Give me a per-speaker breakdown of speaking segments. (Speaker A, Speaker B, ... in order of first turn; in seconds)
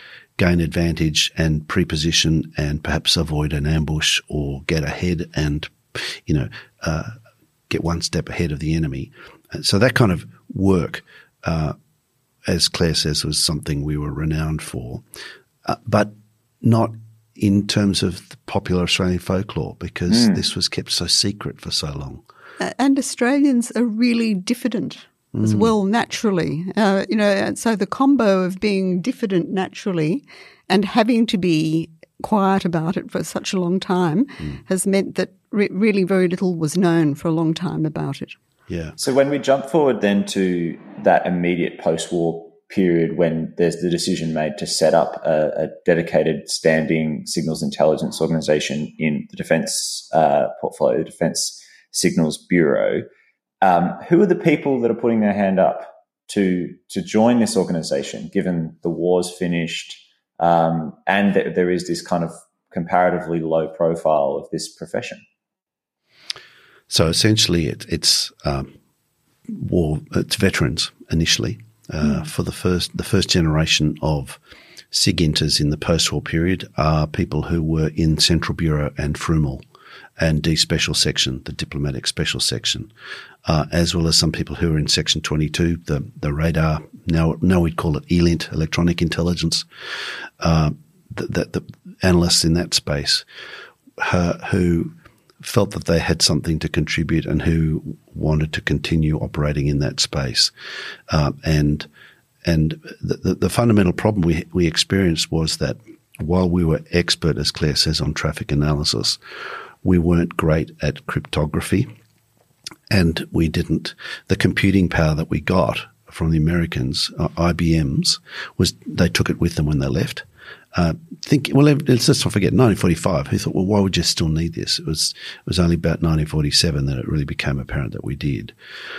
Speaker A: 0.4-7.2, 7.7-11.8, 12.4-15.0, 15.7-22.2, 25.3-25.7, 38.7-39.0, 66.9-68.7, 69.5-74.4, 74.9-79.6, 80.2-82.9, 83.5-93.3, 94.0-100.5, 101.1-101.9, 102.5-109.2, 109.8-111.9, 112.9-128.6
Speaker B: 20.1-20.4, 39.0-53.1, 53.6-65.2
Speaker C: 22.6-38.4